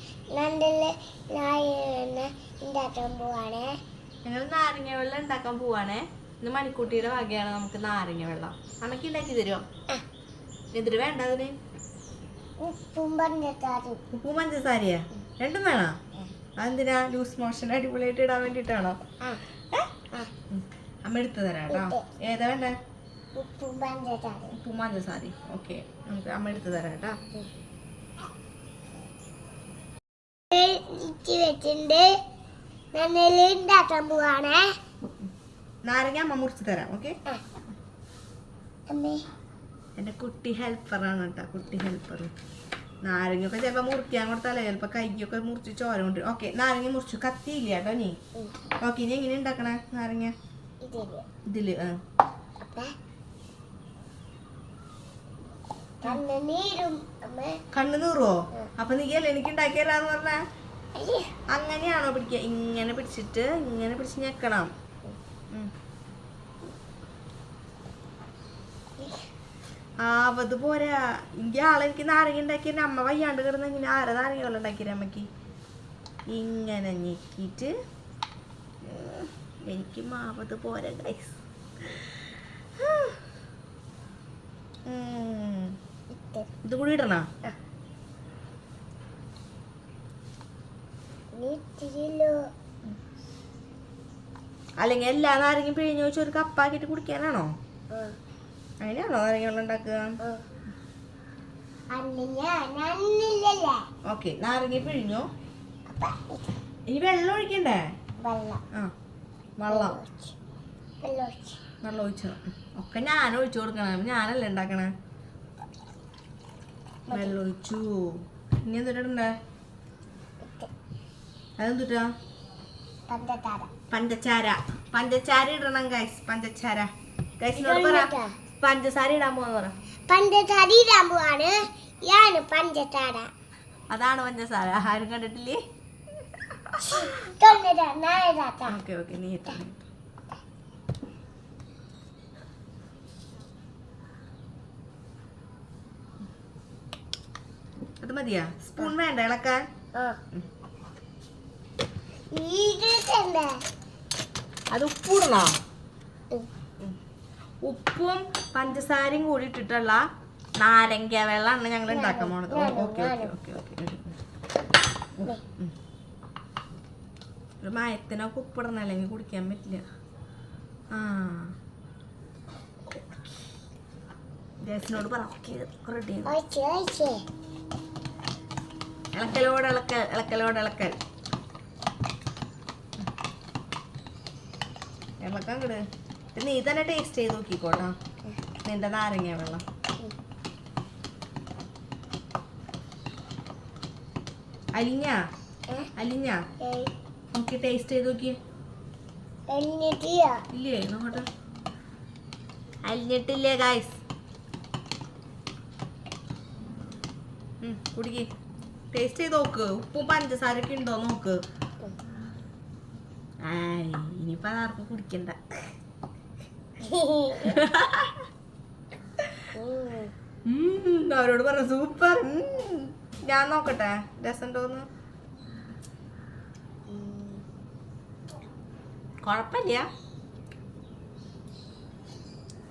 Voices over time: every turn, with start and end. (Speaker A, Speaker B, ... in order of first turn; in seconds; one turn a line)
Speaker A: 0.3-3.8
Speaker B: 4.2-9.6
Speaker B: 10.7-11.5
Speaker A: 12.6-14.0
Speaker B: 14.1-15.9
Speaker B: 16.6-19.0
Speaker B: 20.5-22.8
Speaker A: 21.7-22.1
Speaker A: 23.4-24.6
Speaker B: 24.5-27.2
Speaker A: 30.5-32.1
Speaker A: 32.9-34.6
Speaker B: 35.9-37.1
Speaker A: 38.9-39.2
Speaker B: 40.0-42.3
Speaker B: 43.0-48.1
Speaker B: 48.8-50.3
Speaker A: 50.8-51.2
Speaker B: 51.5-52.0
Speaker A: 52.6-52.9
Speaker A: 56.0-57.6
Speaker B: 57.7-60.4
Speaker A: 61.0-61.3
Speaker B: 61.5-64.7
Speaker B: 70.0-75.3
Speaker B: 76.3-77.7
Speaker B: 78.8-83.2
Speaker B: 84.9-85.8
Speaker A: 86.1-86.5
Speaker B: 86.6-87.2
Speaker A: 91.3-92.4
Speaker B: 94.8-97.5
Speaker A: 97.9-98.2
Speaker B: 98.8-100.2
Speaker A: 101.9-103.8
Speaker B: 104.0-105.3
Speaker A: 105.9-106.5
Speaker B: 106.9-107.9
Speaker A: 108.2-108.6
Speaker B: 109.6-110.0
Speaker A: 109.7-110.3
Speaker A: 111.0-111.6
Speaker B: 111.8-114.9
Speaker A: 117.1-117.4
Speaker B: 117.1-119.3
Speaker A: 120.4-120.7
Speaker B: 121.6-122.1
Speaker A: 123.1-123.7
Speaker B: 123.9-129.8
Speaker A: 127.6-128.3
Speaker A: 130.1-133.3
Speaker B: 133.9-135.6
Speaker B: 136.3-137.1
Speaker A: 136.8-138.8
Speaker B: 138.7-139.9
Speaker B: 148.0-149.7
Speaker A: 152.3-153.6
Speaker B: 154.7-155.6
Speaker B: 157.6-160.0
Speaker B: 160.6-164.2
Speaker A: 161.9-163.4
Speaker B: 165.2-165.7
Speaker B: 167.6-169.8
Speaker B: 170.9-171.5
Speaker B: 172.9-173.3
Speaker B: 174.7-176.3
Speaker A: 176.3-177.2
Speaker B: 179.1-181.0
Speaker B: 185.2-185.8
Speaker B: 186.3-187.9
Speaker B: 188.7-189.6
Speaker B: 194.8-195.2
Speaker B: 196.0-196.4
Speaker A: 196.6-196.9
Speaker B: 197.3-198.4
Speaker A: 199.5-200.4
Speaker B: 200.5-201.3
Speaker B: 202.9-204.0
Speaker B: 207.6-208.3
Speaker B: 208.9-211.4
Speaker B: 213.4-215.6
Speaker A: 216.8-217.6
Speaker B: 217.4-218.2
Speaker A: 219.5-220.1
Speaker B: 220.5-224.9
Speaker A: 226.9-227.4
Speaker B: 229.2-229.9